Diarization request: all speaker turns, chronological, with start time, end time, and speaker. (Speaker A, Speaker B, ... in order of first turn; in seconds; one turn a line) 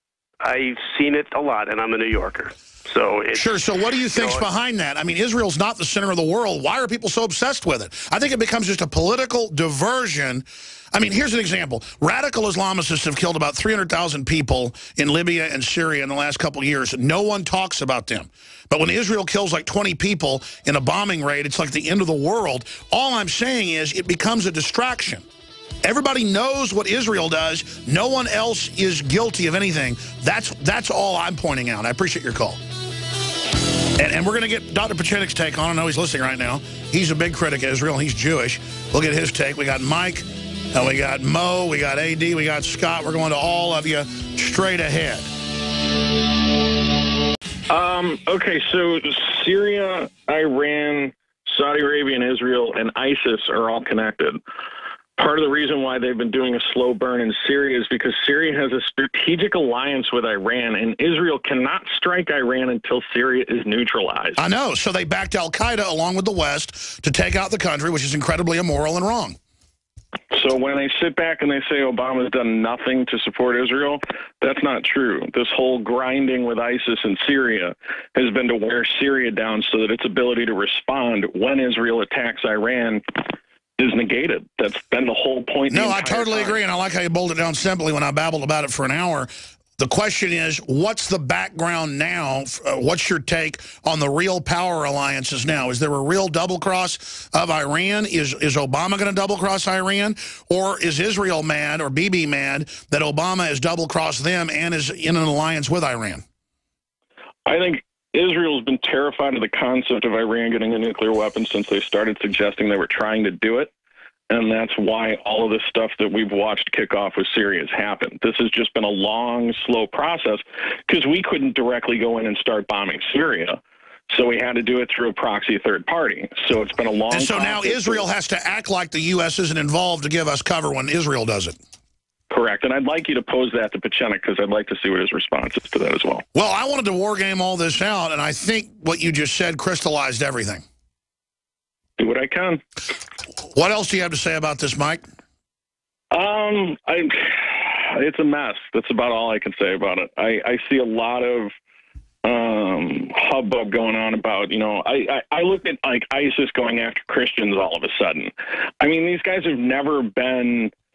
Speaker A: 0.4-3.6
Speaker B: 3.3-25.3
Speaker A: 4.1-4.5
Speaker B: 25.8-32.6
Speaker B: 34.0-45.3
Speaker C: 47.7-54.4
Speaker C: 55.2-64.4
Speaker B: 64.4-69.4
Speaker C: 70.3-83.3
Speaker C: 83.8-86.6
Speaker B: 85.7-106.2
Speaker C: 107.5-113.7
Speaker C: 114.3-123.6
Speaker C: 124.1-128.1
Speaker B: 127.1-131.6
Speaker C: 132.3-136.2
Speaker B: 136.3-140.6
Speaker C: 142.0-142.6
Speaker B: 143.5-145.0
Speaker C: 146.1-151.5
Speaker C: 152.2-160.7